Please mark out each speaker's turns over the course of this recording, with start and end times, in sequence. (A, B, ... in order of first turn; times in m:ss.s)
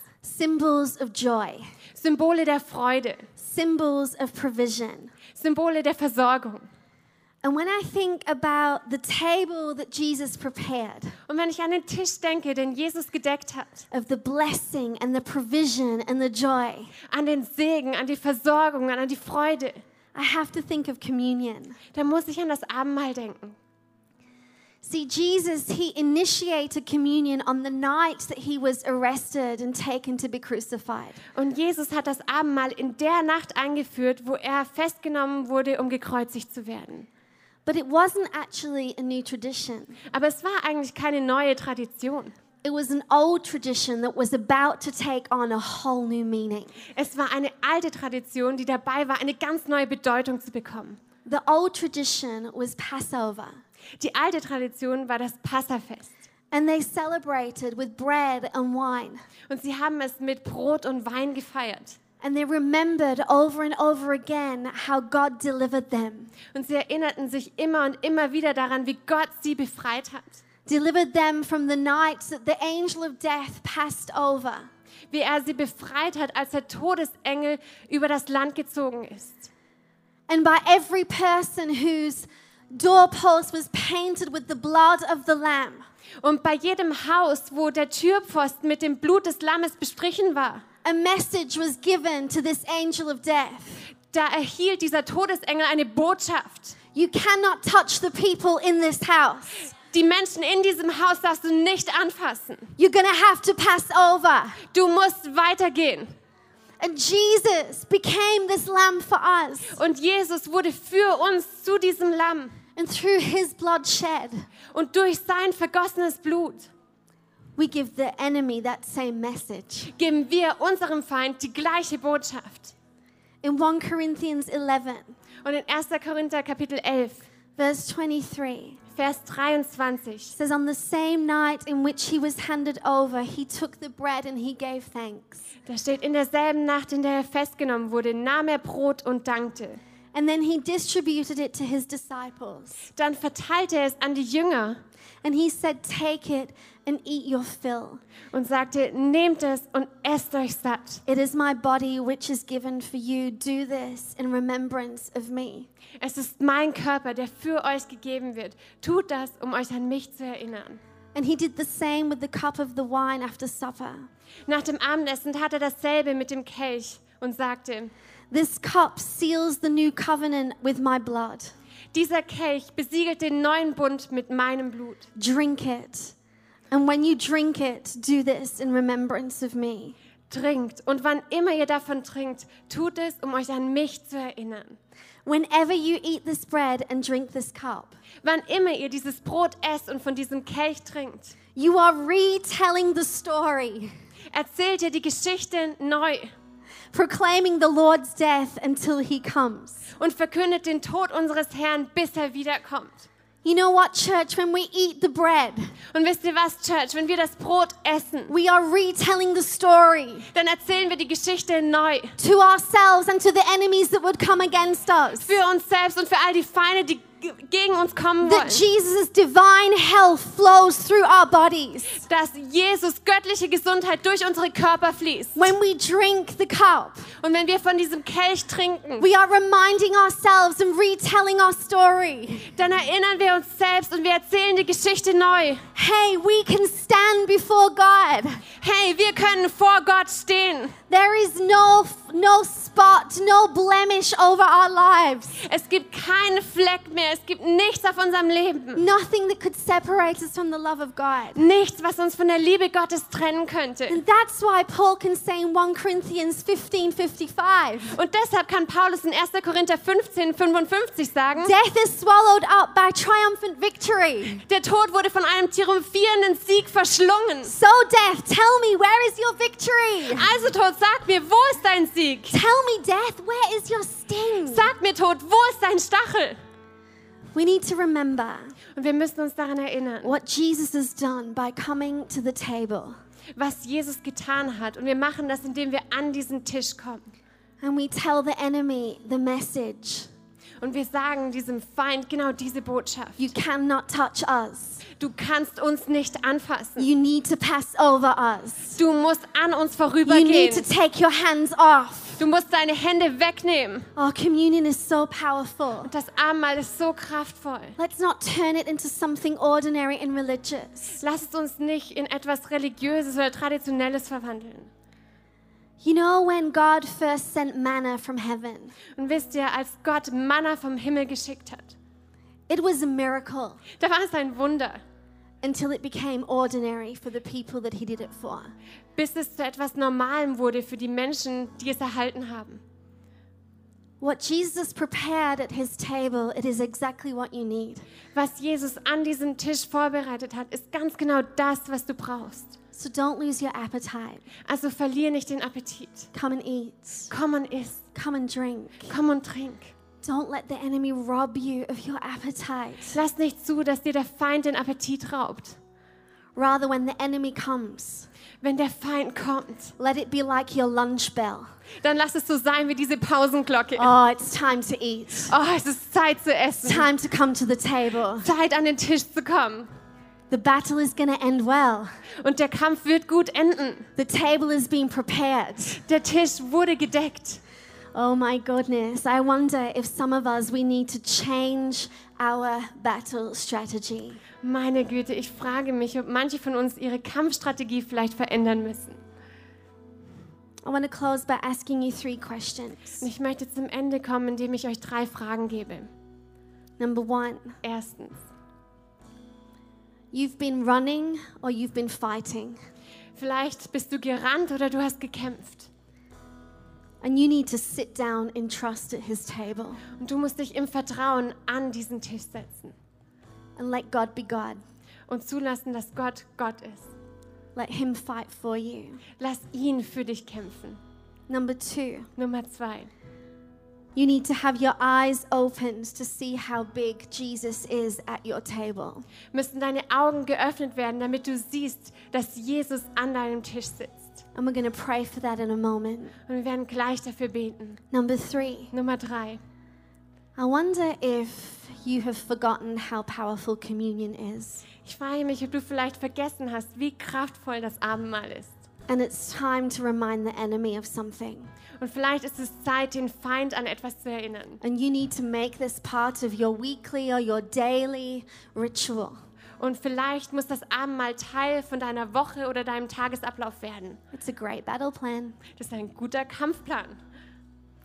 0:00.2-0:01.7 A
0:02.0-0:03.3 B
0:03.4-0:05.1 A
0:05.4-0:06.7 B
0:07.4-0:11.2 A
0:11.3-0:13.9 B
0:13.9-0:16.9 A
0:17.1-0:19.8 B
0:20.1-0:21.8 A
0:21.9-0:23.6 B
0:24.8-0:31.2 A
0:31.4-0:37.1 B
0:37.7-0:40.0 A
0:40.1-0:42.4 B
0:42.6-0:46.8 A
0:46.9-0:51.0 B
0:51.3-0:53.6 A
0:54.0-0:56.1 B
0:56.5-0:59.2 A
0:59.5-1:02.0 B
1:02.2-1:06.3 A
1:06.5-1:10.4 B
1:10.7-1:14.7 A
1:15.1-1:19.5 B
1:20.3-1:25.9 A
1:26.2-1:30.6 B
1:30.8-1:33.8 A
1:34.1-1:36.8 B
1:36.9-1:39.7 A
1:39.9-1:42.7 B
1:42.8-1:44.6 A
1:44.6-1:46.1 B
1:46.8-1:49.8 A
1:49.7-1:52.6 B
1:52.8-1:54.5 A
1:54.7-1:56.7 B
1:57.6-1:59.9 A
1:59.9-2:02.7 B
2:03.4-2:05.2 A
2:05.4-2:07.3 B
2:07.6-2:08.8 A
2:09.0-2:10.4 B
2:10.4-2:15.5 A
2:15.7-2:19.8 B
2:20.1-2:22.9 A
2:23.0-2:24.8 B
2:25.2-2:28.0 A
2:28.3-2:31.0 B
2:31.1-2:35.7 A
2:36.0-2:40.8 B
2:41.2-2:44.1 A
2:44.5-2:47.9 B
2:48.3-2:51.5 A
2:51.9-2:55.1 B
2:55.2-2:56.2 A
2:56.7-3:00.0 A
3:00.3-3:04.8 B
3:05.3-3:08.0 A
3:08.2-3:11.4 B
3:11.6-3:13.9 A
3:14.3-3:16.3 B
3:16.9-3:19.8 A
3:20.0-3:23.1 B
3:23.4-3:25.7 A
3:25.9-3:28.3 B
3:28.3-3:30.3 A
3:30.3-3:32.2 B
3:32.2-3:35.4 A
3:35.2-3:38.6 B
3:38.2-3:42.0 A
3:42.0-3:45.6 B
3:45.4-3:47.1 A
3:47.1-3:49.1 B
3:49.0-3:52.5 A
3:52.5-3:55.6 B
3:55.8-3:58.4 A
3:58.6-4:00.8 B
4:00.9-4:05.4 A
4:05.4-4:08.8 B
4:08.8-4:11.4 A
4:11.4-4:14.0 B
4:13.9-4:18.0 A
4:17.9-4:21.5 B
4:21.4-4:24.4 A
4:24.5-4:27.5 B
4:27.4-4:30.3 A
4:30.1-4:32.4 B
4:32.3-4:34.7 A
4:34.5-4:36.4 B
4:37.4-4:38.5 A
4:38.8-4:40.1 B
4:40.0-4:43.0 A
4:43.4-4:47.0 B
4:47.6-4:50.1 A
4:50.6-4:53.3 B
4:53.2-4:54.8 A
4:54.9-4:56.9 B
4:56.8-4:58.8 A
4:58.8-5:00.7 B
5:00.0-5:02.2 A
5:02.2-5:03.9 B
5:04.0-5:05.9 A
5:05.9-5:07.8 B
5:07.8-5:11.0 A
5:11.0-5:14.7 B
5:15.8-5:18.8 A
5:19.0-5:21.8 B
5:22.5-5:23.6 A
5:23.8-5:24.8 B
5:25.4-5:28.5 A
5:29.0-5:32.6 B
5:34.0-5:37.8 A
5:38.2-5:42.6 B
5:42.7-5:44.3 A
5:44.4-5:46.1 B
5:46.1-5:47.1 A
5:47.1-5:47.8 B
5:47.9-5:48.9 A
5:48.9-5:49.7 B
5:50.0-5:53.0 A
5:52.9-5:55.6 B
5:56.4-5:58.1 A
5:58.4-5:59.7 B
5:59.8-6:01.5 A
6:01.8-6:03.9 B
6:03.8-6:05.3 A
6:05.3-6:06.9 B
6:06.6-6:08.3 A
6:08.2-6:09.7 B
6:10.3-6:11.9 A
6:12.2-6:13.9 B
6:14.0-6:15.8 A
6:15.8-6:17.4 B
6:17.9-6:24.2 A
6:24.4-6:29.0 B
6:30.6-6:33.0 A
6:33.0-6:35.9 B
6:36.8-6:37.6 A
6:37.6-6:38.2 B
6:40.1-6:42.6 A
6:43.2-6:45.7 B
6:47.0-6:49.8 A
6:50.0-6:52.8 B
6:53.6-6:54.6 A
6:55.1-6:56.9 B
6:57.6-6:59.0 A
6:59.2-7:00.8 B
7:01.3-7:02.1 A
7:02.2-7:02.9 B
7:04.0-7:09.1 A
7:09.3-7:14.2 B
7:14.4-7:16.2 A
7:16.3-7:17.8 B
7:17.9-7:18.7 A
7:18.7-7:19.4 B
7:20.4-7:24.6 A
7:24.8-7:28.6 B
7:28.9-7:31.5 A
7:31.8-7:34.6 B
7:34.6-7:39.2 A
7:39.6-7:44.0 B
7:44.1-7:45.4 A
7:45.5-7:47.0 B